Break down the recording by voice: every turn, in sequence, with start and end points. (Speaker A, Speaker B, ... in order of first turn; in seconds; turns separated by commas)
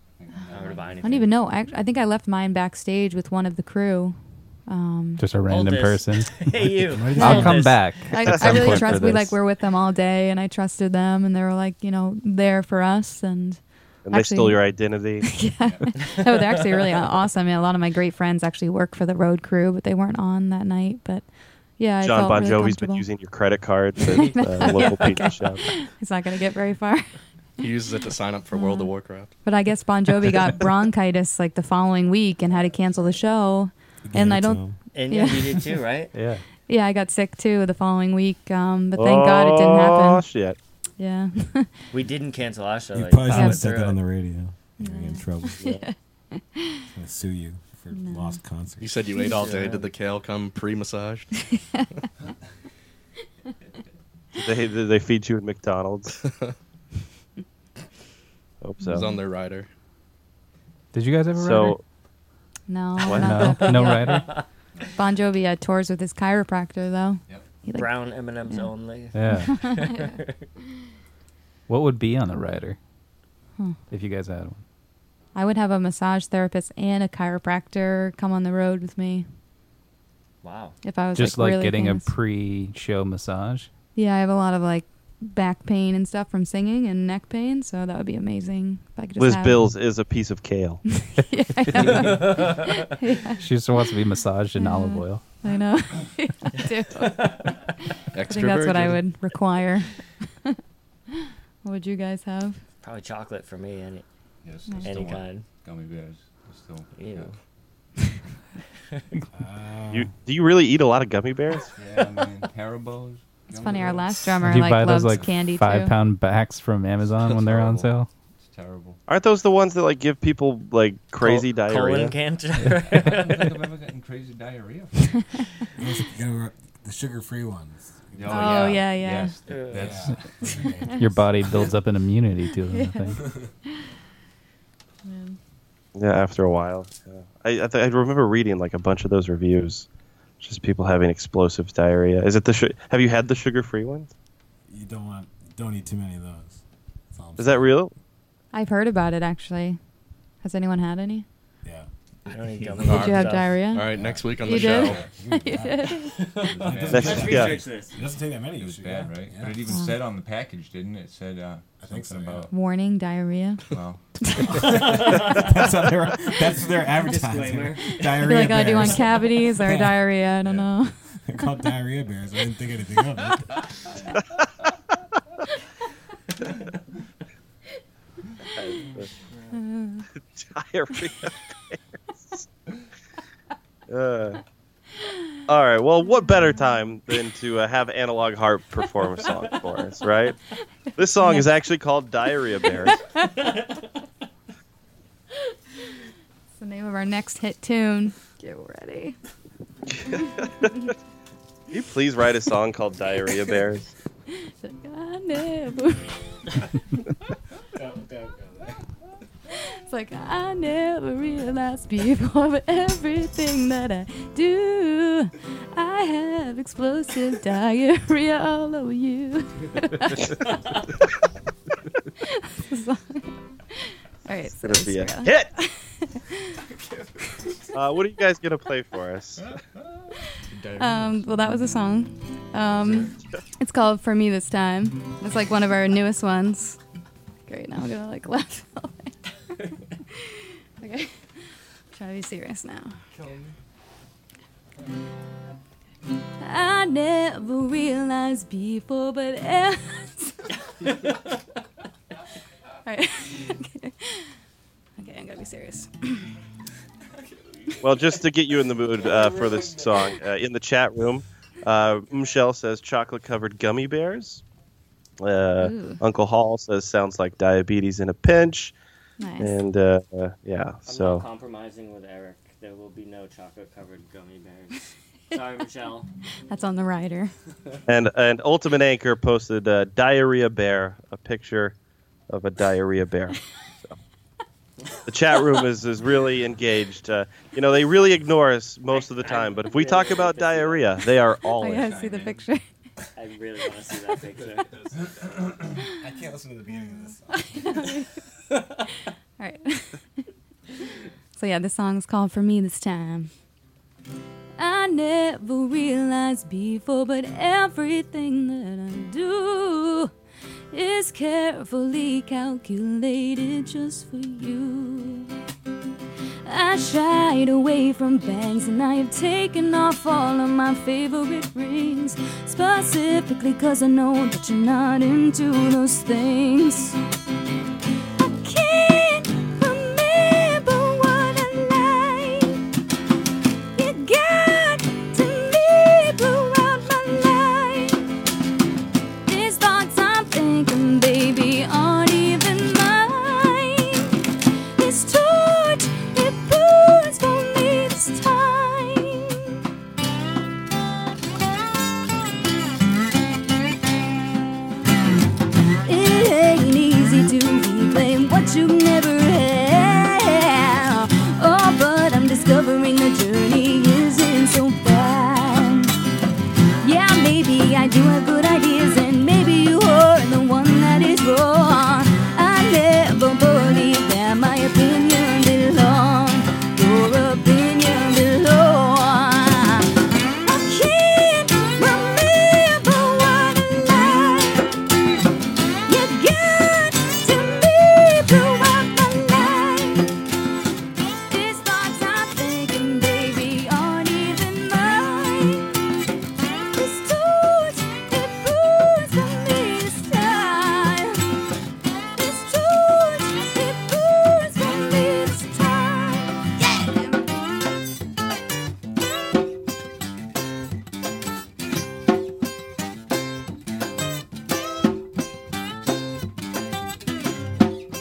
Speaker A: 0.2-1.3, Speaker B: 0.5-1.3, Speaker C: 1.0-5.2, Speaker D: 5.2-6.5, Speaker B: 5.5-7.8, Speaker E: 6.9-7.8, Speaker D: 7.1-9.3, Speaker C: 7.2-14.7, Speaker F: 8.2-9.1, Speaker F: 14.1-15.3, Speaker C: 15.2-21.2, Speaker A: 15.6-15.9, Speaker C: 21.8-23.1, Speaker F: 22.0-25.7, Speaker C: 24.1-27.1, Speaker G: 27.6-29.3, Speaker C: 28.5-28.9, Speaker C: 29.4-35.6, Speaker E: 34.0-34.8, Speaker B: 34.9-36.1, Speaker D: 36.1-36.4, Speaker C: 36.7-40.2, Speaker F: 39.0-40.6, Speaker C: 41.0-41.7, Speaker B: 41.9-44.0, Speaker E: 42.9-45.7, Speaker C: 43.3-43.6, Speaker C: 44.8-46.8, Speaker E: 46.9-49.0, Speaker C: 47.9-48.4, Speaker G: 48.8-51.3, Speaker B: 49.3-49.9, Speaker F: 54.4-56.2, Speaker F: 58.6-59.1, Speaker G: 58.9-59.7, Speaker D: 60.9-61.8, Speaker F: 61.4-61.8, Speaker C: 62.7-64.3, Speaker F: 63.1-63.6, Speaker D: 63.1-64.4, Speaker B: 63.9-64.5, Speaker C: 65.0-67.9, Speaker B: 67.7-70.4, Speaker D: 69.1-69.8, Speaker C: 69.5-69.8, Speaker D: 71.7-72.8, Speaker D: 73.9-74.6, Speaker C: 75.3-79.2, Speaker B: 80.4-80.8, Speaker C: 80.8-82.1, Speaker D: 81.2-83.7, Speaker C: 84.0-89.6, Speaker F: 89.2-90.8, Speaker C: 91.0-93.4, Speaker D: 91.7-92.4, Speaker B: 92.0-92.6, Speaker D: 93.4-95.2, Speaker C: 94.6-97.6, Speaker B: 97.2-97.5, Speaker G: 98.1-99.0, Speaker C: 98.3-100.6, Speaker C: 101.6-102.6, Speaker B: 102.8-104.0, Speaker A: 104.4-107.3, Speaker B: 104.8-105.5, Speaker B: 107.0-107.3, Speaker E: 109.3-110.1, Speaker F: 109.9-111.7, Speaker A: 111.7-114.5, Speaker C: 113.6-115.9, Speaker D: 114.4-118.1, Speaker A: 117.3-117.9, Speaker A: 118.4-119.0, Speaker F: 119.1-122.2, Speaker B: 121.2-123.6, Speaker A: 122.8-125.2, Speaker E: 125.8-128.5, Speaker A: 128.1-130.7, Speaker C: 128.3-129.4, Speaker B: 129.5-130.1, Speaker E: 129.8-131.3, Speaker C: 130.4-131.0, Speaker D: 130.9-133.2, Speaker C: 132.7-133.2, Speaker C: 135.1-135.4, Speaker F: 136.0-139.9, Speaker F: 140.4-144.1, Speaker E: 144.7-147.7, Speaker F: 147.4-147.9, Speaker C: 148.5-149.8, Speaker C: 150.4-151.2, Speaker E: 151.6-153.0, Speaker B: 152.3-153.6, Speaker G: 152.9-155.0, Speaker C: 152.9-153.9, Speaker A: 154.0-155.1, Speaker E: 154.0-159.8, Speaker C: 154.4-156.2, Speaker B: 156.2-158.0, Speaker A: 156.5-157.5, Speaker F: 156.9-157.6, Speaker A: 158.5-162.5, Speaker C: 159.7-160.0, Speaker E: 161.8-162.5, Speaker C: 162.5-163.6, Speaker A: 163.7-164.0, Speaker C: 164.3-164.6, Speaker E: 164.5-170.1, Speaker B: 164.9-165.3, Speaker B: 167.0-168.9, Speaker C: 168.2-171.4, Speaker E: 171.3-173.7, Speaker F: 178.5-179.1, Speaker C: 179.5-180.1, Speaker F: 180.4-182.5, Speaker F: 183.9-184.4, Speaker F: 185.5-190.4, Speaker F: 191.0-193.0, Speaker C: 192.9-193.3, Speaker C: 196.6-199.2, Speaker F: 199.9-200.7, Speaker F: 201.7-203.9, Speaker C: 204.5-206.4, Speaker E: 207.8-208.8, Speaker C: 209.6-220.3, Speaker C: 222.4-226.6, Speaker F: 224.6-225.5, Speaker F: 227.7-229.5, Speaker G: 230.5-231.2, Speaker C: 230.8-236.8, Speaker C: 237.5-239.2, Speaker C: 240.3-241.1, Speaker C: 241.9-243.0, Speaker C: 246.5-250.3, Speaker C: 252.9-254.3, Speaker C: 255.0-256.3, Speaker F: 257.8-264.4, Speaker F: 265.2-268.7, Speaker C: 265.6-266.0, Speaker C: 269.2-269.5, Speaker F: 269.4-271.2, Speaker B: 270.9-276.1, Speaker C: 276.5-277.3, Speaker F: 277.9-281.8, Speaker F: 282.3-284.0, Speaker F: 285.1-292.0, Speaker B: 288.9-291.0, Speaker C: 291.6-292.6, Speaker A: 291.8-292.4, Speaker B: 293.1-294.8, Speaker E: 295.4-297.7, Speaker C: 297.3-298.1, Speaker C: 299.4-300.0, Speaker C: 301.4-303.3, Speaker H: 304.6-310.1, Speaker H: 310.7-315.3, Speaker H: 316.4-327.0, Speaker H: 328.2-332.6, Speaker H: 333.8-338.1, Speaker H: 339.3-344.1, Speaker H: 344.8-349.4, Speaker H: 355.9-365.9, Speaker H: 366.8-379.9, Speaker H: 380.4-384.8, Speaker H: 385.9-390.1, Speaker H: 391.3-395.8, Speaker H: 396.7-401.2, Speaker H: 402.2-407.2